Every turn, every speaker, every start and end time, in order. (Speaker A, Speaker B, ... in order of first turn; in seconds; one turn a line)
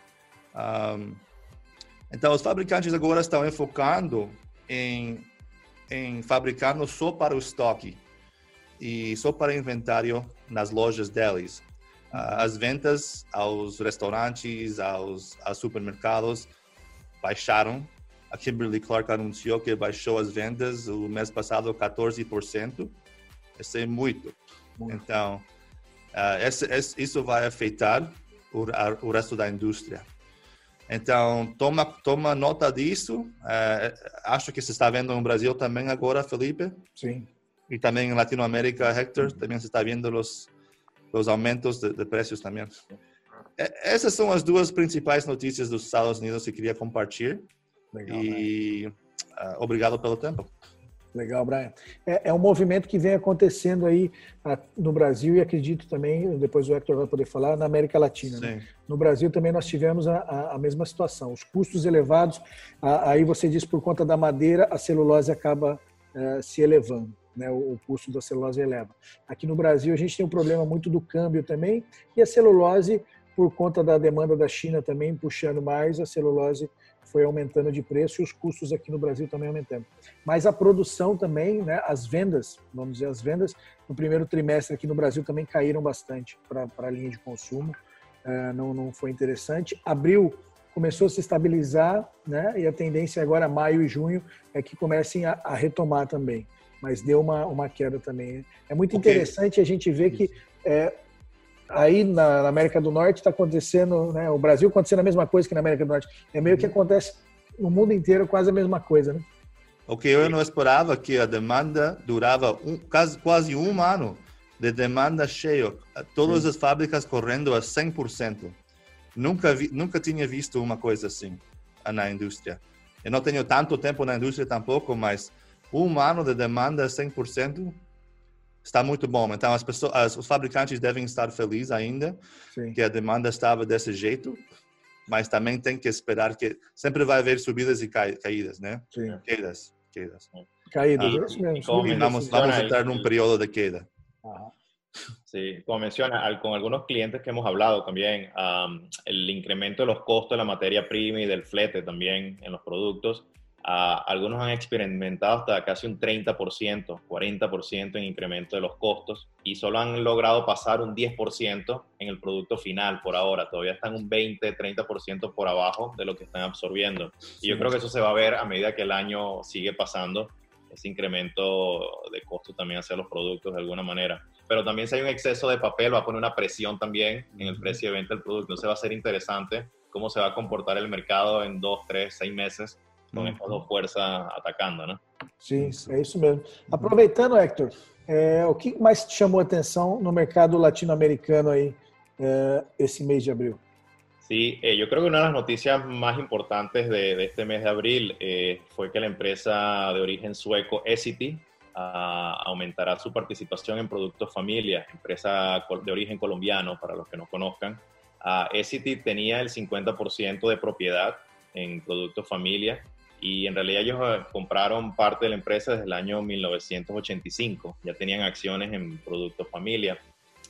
Speaker A: 0.5-1.2
Speaker A: 2.1-5.3
Speaker A: 5.9-8.0
Speaker A: 8.8-16.5
Speaker B: 12.1-12.5
Speaker A: 17.2-22.9
Speaker A: 23.6-25.5
Speaker A: 26.1-30.1
Speaker A: 30.9-36.8
Speaker B: 37.0-37.3
Speaker A: 37.7-40.5
Speaker A: 41.1-42.8
Speaker A: 43.6-47.5
Speaker B: 47.9-48.5
Speaker A: 48.1-50.5
Speaker B: 51.1-100.9
Speaker A: 58.2-58.7
Speaker A: 98.9-99.3
Speaker B: 101.7-109.3
Speaker A: 106.4-106.7
Speaker A: 109.9-118.6
Speaker A: 119.1-127.8
Speaker A: 128.6-132.2
Speaker B: 132.5-132.8
Speaker A: 132.7-134.4
Speaker A: 135.1-140.3
Speaker B: 138.9-139.2
Speaker B: 140.7-142.4
Speaker A: 140.9-143.9
Speaker C: 141.0-143.1
Speaker B: 144.2-144.5
Speaker C: 145.3-185.0
Speaker A: 183.1-183.5
Speaker B: 185.4-193.6
Speaker A: 185.6-185.9
Speaker C: 194.2-220.0